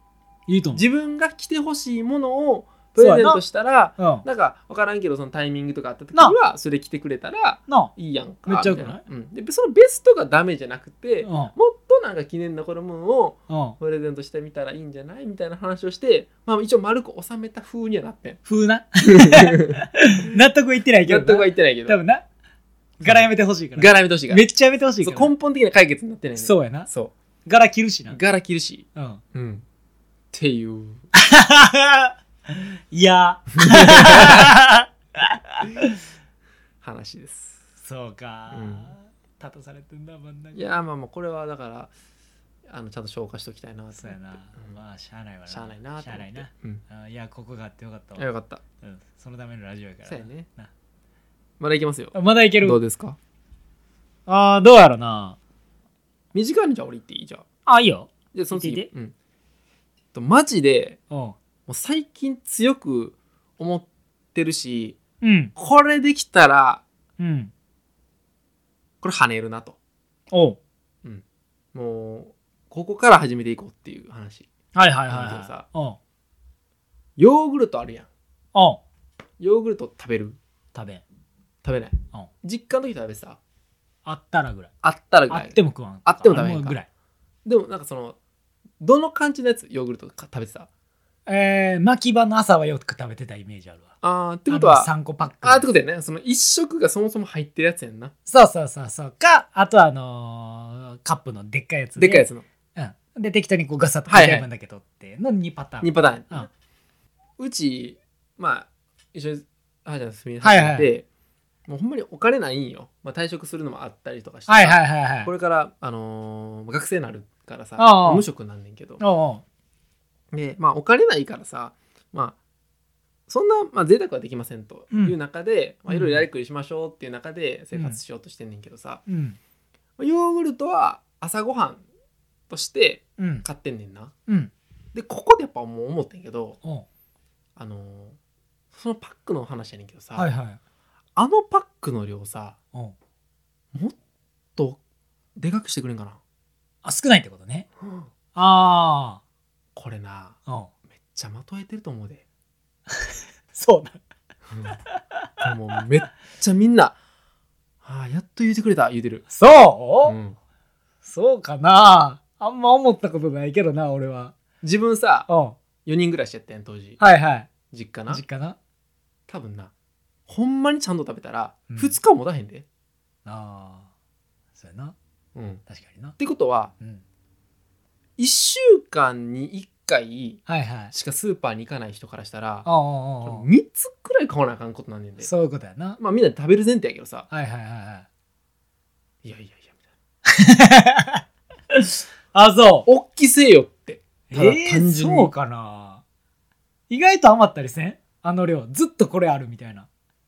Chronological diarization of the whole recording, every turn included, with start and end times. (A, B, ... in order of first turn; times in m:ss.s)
0:00.5-0:00.8 A
0:00.7-0:18.4 B
0:03.0-0:03.4 A
0:04.0-0:04.2 A
0:07.7-0:07.9 A
0:08.5-0:09.0 A
0:11.2-0:11.5 A
0:13.5-0:13.8 A
0:18.5-0:22.2 A
0:19.1-0:19.8 B
0:21.0-0:22.0 B
0:23.0-0:25.3 A
0:23.0-0:24.4 B
0:25.0-0:27.1 B
0:26.4-0:26.9 A
0:27.4-0:28.2 A
0:28.1-0:29.6 B
0:28.9-0:29.2 A
0:30.3-0:31.1 B
0:31.1-0:36.0 A
0:33.6-0:34.5 B
0:36.8-0:37.6 B
0:37.8-0:40.7 A
0:38.5-0:38.9 B
0:40.5-0:41.9 B
0:42.7-0:44.7 B
0:43.9-0:48.2 A
0:45.5-0:46.8 B
0:48.2-0:48.6 B
0:48.8-0:50.7 A
0:50.0-0:50.5 B
0:51.6-0:53.2 B
0:52.1-0:52.8 A
0:54.3-0:55.4 A
0:56.3-0:57.4 B
0:57.7-0:58.9 A
0:58.3-0:59.1 B
1:00.1-1:01.0 B
1:01.1-1:01.4 A
1:01.7-1:05.0 B
1:05.2-1:05.5 A
1:05.6-1:06.8 B
1:07.2-1:07.5 A
1:09.0-1:09.8 B
1:10.3-1:10.6 A
1:11.7-1:14.5 B
1:14.7-1:16.0 A
1:15.1-1:15.6 B
1:17.2-1:18.1 B
1:18.5-1:18.8 A
1:19.4-1:20.4 B
1:20.7-1:21.0 A
1:21.6-1:23.4 B
1:24.0-1:24.7 A
1:24.8-1:26.8 B
1:25.3-1:26.9 A
1:27.4-1:28.2 B
1:28.8-1:30.7 B
1:31.3-1:33.9 A
1:34.0-1:38.1 B
1:34.5-1:35.7 A
1:38.3-1:46.5 A
1:42.0-1:42.4 B
1:44.1-1:44.4 B
1:45.8-1:46.5 B
1:47.4-1:51.0 B
1:50.4-1:50.9 A
1:51.7-1:59.0 B
1:54.5-1:55.3 A
1:57.8-1:58.2 A
1:59.0-1:59.4 A
2:00.3-2:02.4 B
2:03.3-2:09.0 B
2:05.9-2:06.2 A
2:07.7-2:08.0 A
2:09.1-2:09.4 A
2:10.0-2:11.8 B
2:12.5-2:14.1 B
2:13.2-2:13.4 A
2:14.9-2:16.6 B
2:17.6-2:18.2 B
2:18.7-2:20.3 B
2:20.2-2:20.6 A
2:21.2-2:22.6 B
2:25.4-2:26.2 B
2:26.8-2:27.7 A
2:27.8-2:28.1 B
2:28.3-2:29.2 A
2:29.7-2:30.4 B
2:31.0-2:32.2 B
2:32.9-2:34.0 A
2:34.5-2:34.8 B
2:34.9-2:35.4 A
2:35.4-2:36.9 B
2:37.8-2:39.2 B
2:39.3-2:40.2 A
2:40.0-2:40.4 B
2:41.0-2:44.3 A
2:44.6-2:45.3 B
2:45.3-2:45.6 A
2:45.8-2:47.0 B
2:47.0-2:47.5 A
2:47.7-2:48.2 B
2:48.1-2:48.6 A
2:49.3-2:49.7 B
2:50.3-2:52.6 B
2:51.7-2:51.9 A
2:53.2-2:53.9 A
2:54.6-2:54.9 A
2:55.3-2:55.6 B
2:55.7-2:56.2 A
2:56.2-2:56.7 B
2:58.2-3:02.7 B
3:00.5-3:00.9 A
3:02.6-3:03.5 A
3:03.2-3:05.3 B
3:05.2-3:06.0 A
3:06.0-3:07.3 B
3:07.3-3:08.0 A
3:09.2-3:09.7 B
3:10.3-3:12.9 A
3:12.8-3:15.3 B
3:14.3-3:16.0 A
3:16.9-3:19.9 A